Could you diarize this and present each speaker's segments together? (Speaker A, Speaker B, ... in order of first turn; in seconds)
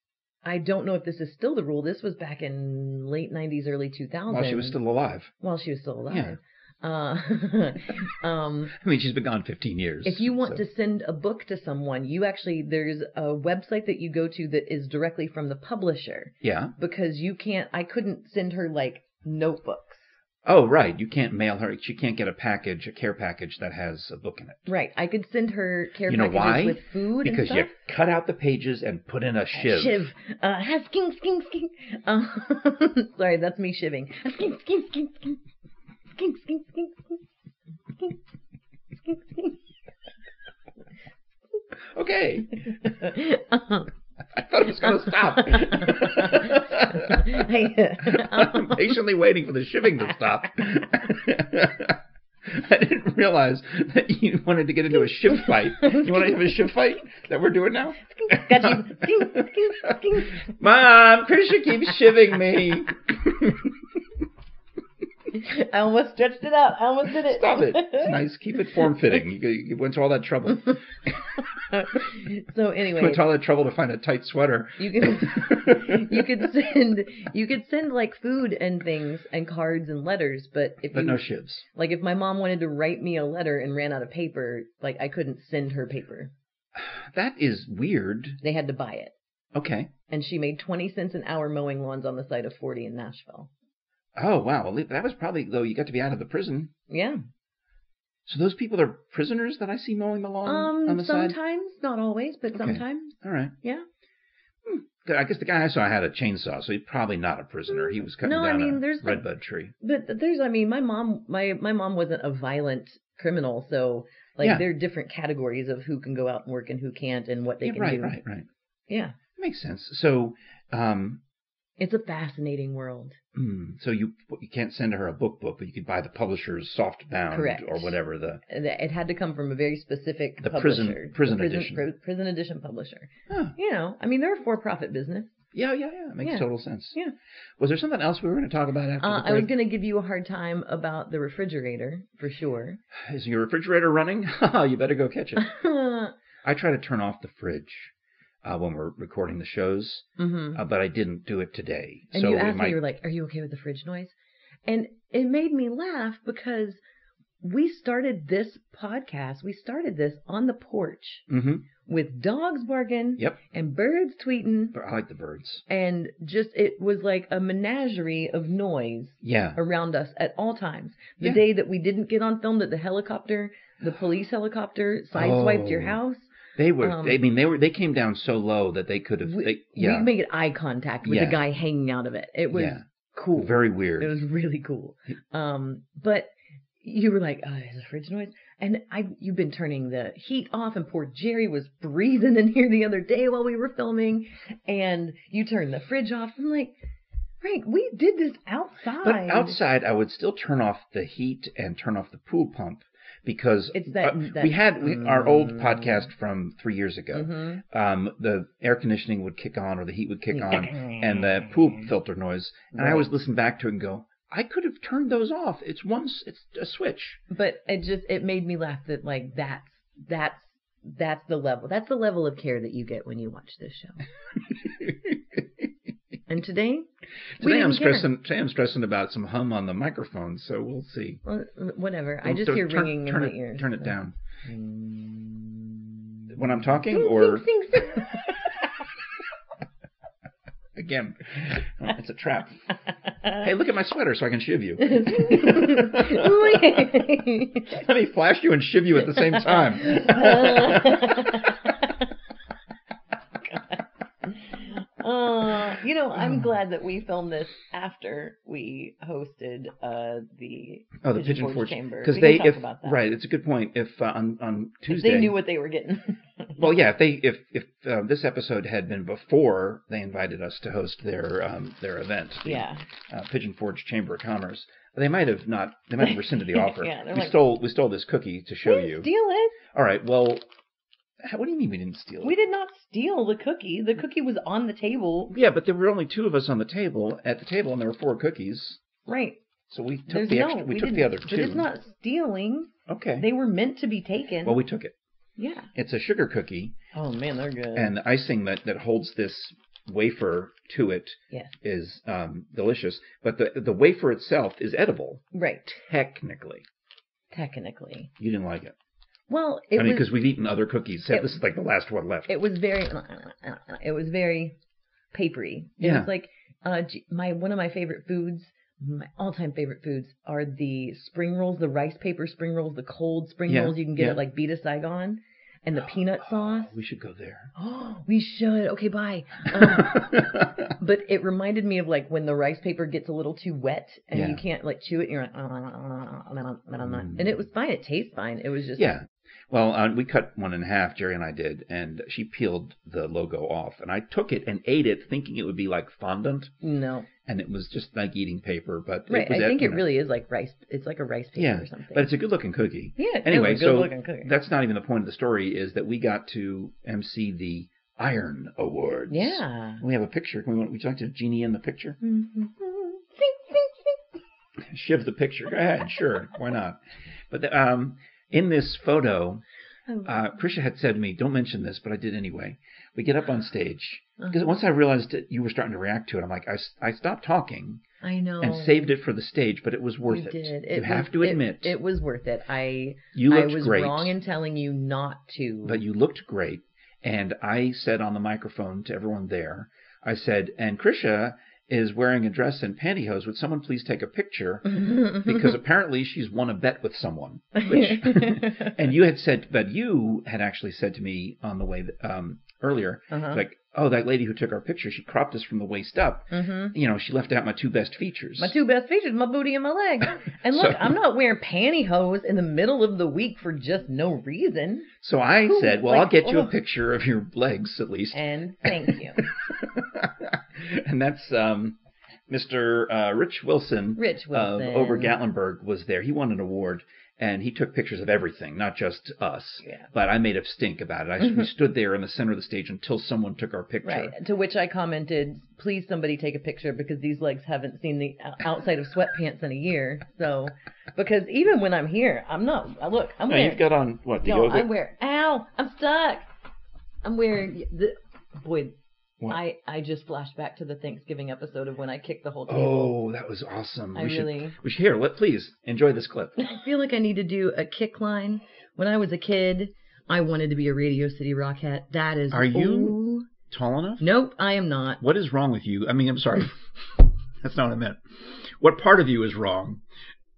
Speaker A: 0.4-4.8, 5.4-8.7, 10.0-20.1, 24.7-27.7, 29.5-35.4, 36.1-37.2, 39.0-39.6, 42.7-43.9, 44.8-49.0, 55.5-56.3, 58.1-60.5, 65.3-68.2, 71.5-73.2, 74.8-86.3, 88.4-89.1, 90.1-93.5, 96.9-97.2, 100.4-103.8, 107.9-109.2, 109.8-118.2, 118.9-119.2, 121.8-123.2, 127.3-135.3, 136.2-137.1, 139.0-142.8, 145.4-146.1, 150.2-150.6, 152.1-154.1, 154.7-156.8, 157.4-161.3, 161.8-164.7, 165.7-177.2, 179.2-186.3, 186.8-196.8, 197.4-199.6, 203.7-206.1, 207.1-207.6, 210.3-211.4, 212.7-213.1, 217.3-224.0, 226.3-226.9, 227.4-228.1, 231.2-238.7, 244.8-247.7, 249.1-252.1, 253.4-263.0, 264.9-266.6, 272.4-272.8, 276.0-277.4, 278.6-279.6, 282.2-285.3, 289.1-289.4, 290.1-294.6, 295.4-295.7, 296.9-297.9, 305.3-305.8, 307.3-308.1, 309.3-310.1, 311.1-311.4, 312.3-314.6, 315.1-326.8, 327.5-338.9, 346.6-347.1, 349.1-352.1, 353.0-354.3, 359.1-359.8, 362.0-364.0, 369.9-370.1, 374.2-374.6, 378.0-378.9, 380.1-385.8, 394.7-395.5, 397.6-398.8, 403.1-403.4, 406.3-406.7, 408.4-414.9, 415.5-416.5, 418.1-419.2, 424.0-425.1, 433.8-443.6, 444.2-446.3, 447.0-448.8, 449.3-452.9, 453.9-454.6, 456.4-463.3, 464.0-465.0
Speaker B: 4.3-5.3, 6.1-6.3, 8.7-10.6, 16.4-16.7, 20.4-24.7, 26.1-30.1, 41.9-42.9, 44.3-47.5, 48.0-63.7, 67.2-71.4, 72.9-76.4, 80.9-81.6, 86.8-88.4, 89.5-89.9, 94.2-96.7, 98.2-101.3, 102.5-103.5, 104.7-109.7, 114.4-114.7, 117.6-118.5, 119.4-121.2, 123.3-128.4, 130.4-131.8, 133.3-133.5, 135.5-137.0, 137.6-139.5, 142.9-145.5, 146.4-147.9, 148.4-152.8, 161.3-161.7, 164.7-165.6, 169.2-169.6, 175.1-176.0, 176.5-180.1, 181.0-181.4, 182.5-182.8, 183.3-184.2, 199.0-217.2, 224.6-225.4, 227.4-231.2, 232.2-234.1, 236.3-237.5, 240.8-242.7, 243.3-246.9, 247.7-251.7, 261.0-265.4, 266.6-279.1, 279.7-280.4, 281.2-282.3, 285.3-288.8, 289.7-291.7, 292.9-293.3, 294.4-294.9, 295.7-296.8, 297.7-306.6, 308.2-308.7, 309.7-312.3, 315.8-316.1, 323.5-324.2, 326.2-327.5, 329.5-330.7, 334.1-334.4, 336.8-337.4, 338.8-346.5, 347.2-349.9, 351.4-362.0, 364.7-369.4, 370.0-377.8, 378.4-381.8, 383.1-384.1, 385.6-408.5, 410.5-410.9, 415.0-421.8, 422.3-434.1, 443.3-444.7, 452.5-456.4, 462.3-464.1, 465.0-466.7, 467.4-469.8